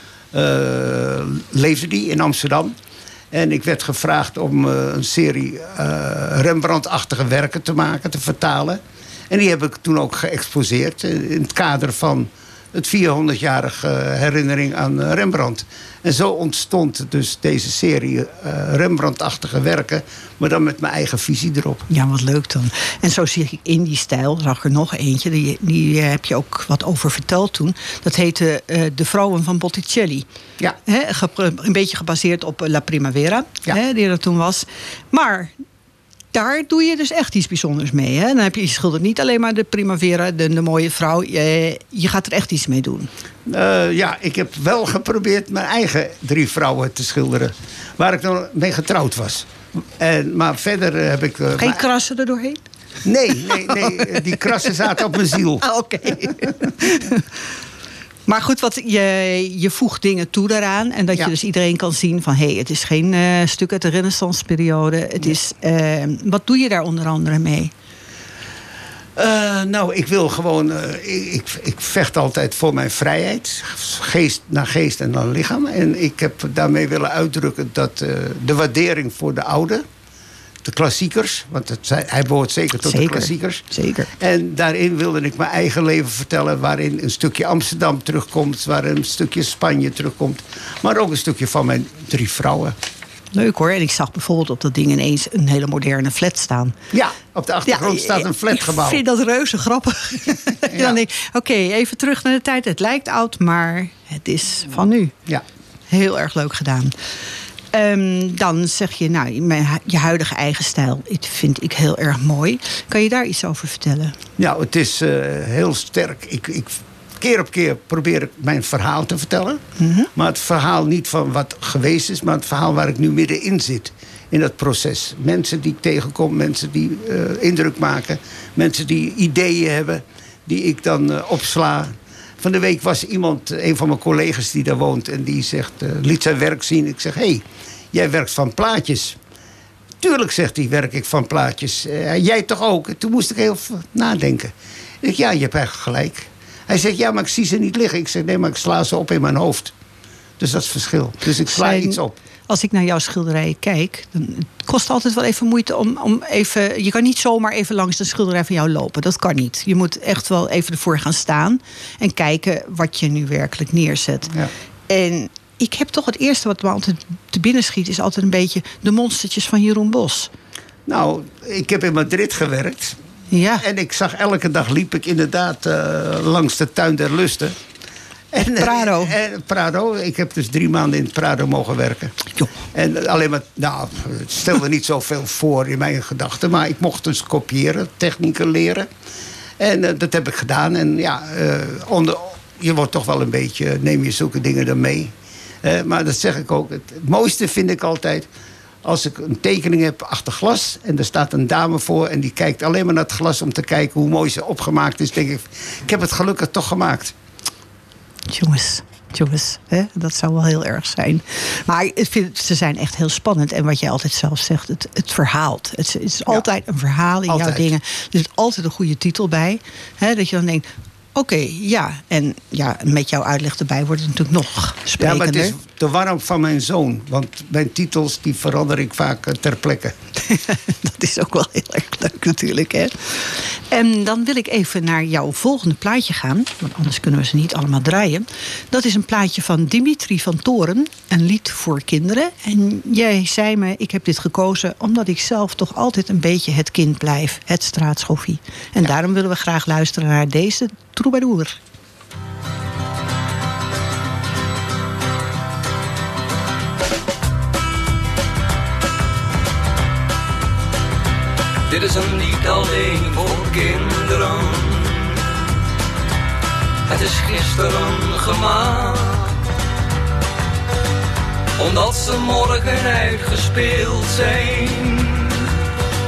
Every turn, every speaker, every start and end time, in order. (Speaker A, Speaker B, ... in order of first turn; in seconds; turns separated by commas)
Speaker A: 0.3-2.8, Speaker A: 3.3-21.9, Speaker B: 21.9-30.2, Speaker B: 30.9-35.5, Speaker B: 36.3-43.1, Speaker A: 43.5-51.8, Speaker B: 51.5-52.6, Speaker A: 53.0-55.6, Speaker B: 53.3-54.8, Speaker B: 55.6-57.2, Speaker B: 58.3-67.7, Speaker A: 69.2-79.8, Speaker A: 80.6-83.6, Speaker B: 82.8-84.1, Speaker A: 84.2-92.7, Speaker B: 93.3-96.8, Speaker A: 96.9-99.0, Speaker B: 97.7-105.1, Speaker A: 100.6-101.0, Speaker B: 105.9-106.9, Speaker B: 107.7-114.2, Speaker A: 114.4-119.6, Speaker B: 119.8-120.1, Speaker A: 120.1-139.2, Speaker A: 140.0-149.7, Speaker A: 150.4-152.2, Speaker B: 151.4-164.3, Speaker B: 164.9-170.3, Speaker A: 170.8-173.0, Speaker B: 173.3-173.6, Speaker A: 173.6-177.6, Speaker A: 178.3-182.1, Speaker B: 178.5-179.1, Speaker A: 182.7-188.9, Speaker A: 189.6-198.3, Speaker A: 198.8-207.1, Speaker B: 208.3-225.6, Speaker A: 217.3-217.7, Speaker A: 225.0-229.9, Speaker B: 230.2-251.6, Speaker C: 261.7-265.2, Speaker C: 266.9-269.3, Speaker C: 271.6-275.4